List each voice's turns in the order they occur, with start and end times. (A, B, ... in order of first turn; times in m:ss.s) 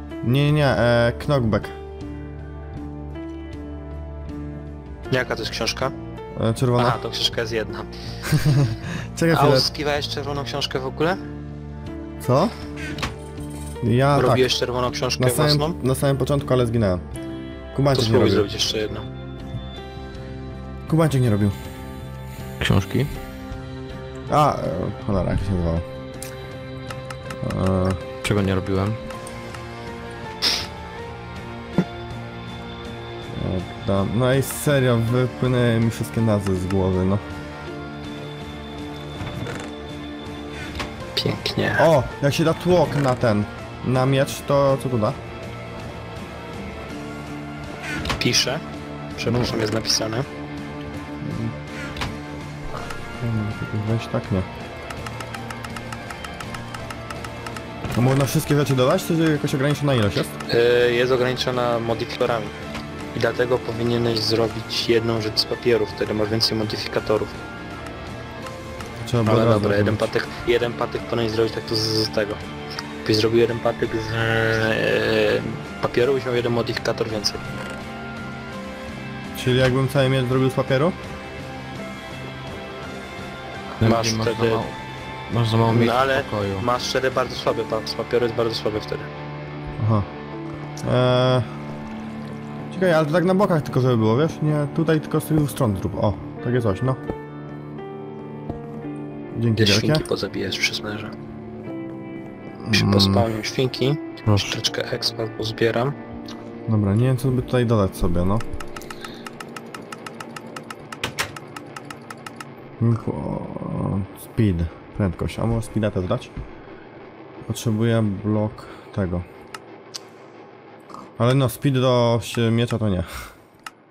0:00.2-0:01.7 A
0:05.1-0:05.9 B
0:06.4-0:07.0 A
0:06.8-0:07.9 B
0:08.2-0:09.7 A
0:09.3-0:11.2 B
0:12.2-0:12.6 A
0:13.8-0:14.4 A
0:14.1-0:15.8 B
0:15.2-0:17.0 A
0:17.7-0:18.5 A
0:17.9-0:19.1 B
0:20.9-0:21.6 A
0:22.6-0:23.1 C
0:24.3-0:25.8 A
0:27.4-0:28.0 A
0:28.2-0:29.0 C
0:33.3-0:37.2 A
0:41.2-0:41.9 B
0:41.8-0:45.2 A
0:48.2-0:48.6 B
0:49.2-0:50.2 B
0:49.2-0:49.5 A
0:51.2-0:51.5 A
0:53.2-0:54.5 A
0:57.9-1:00.4 A
1:00.5-1:02.6 B
1:03.1-1:07.4 B
1:09.0-1:10.1 A
1:09.2-1:12.4 B
1:13.0-1:17.4 B
1:19.3-1:21.0 A
1:23.8-1:24.8 C
1:23.8-1:24.6 B
1:25.3-1:26.6 C
1:25.7-1:29.1 B
1:29.8-1:30.1 A
1:30.8-1:31.5 A
1:32.7-1:37.0 A
1:39.3-1:40.0 A
1:39.6-1:41.1 B
1:42.6-1:43.3 A
1:42.7-1:46.0 B
1:44.3-1:44.6 C
1:46.7-1:48.4 A
1:52.8-1:56.3 A
1:57.4-1:59.3 A
2:01.2-2:03.3 A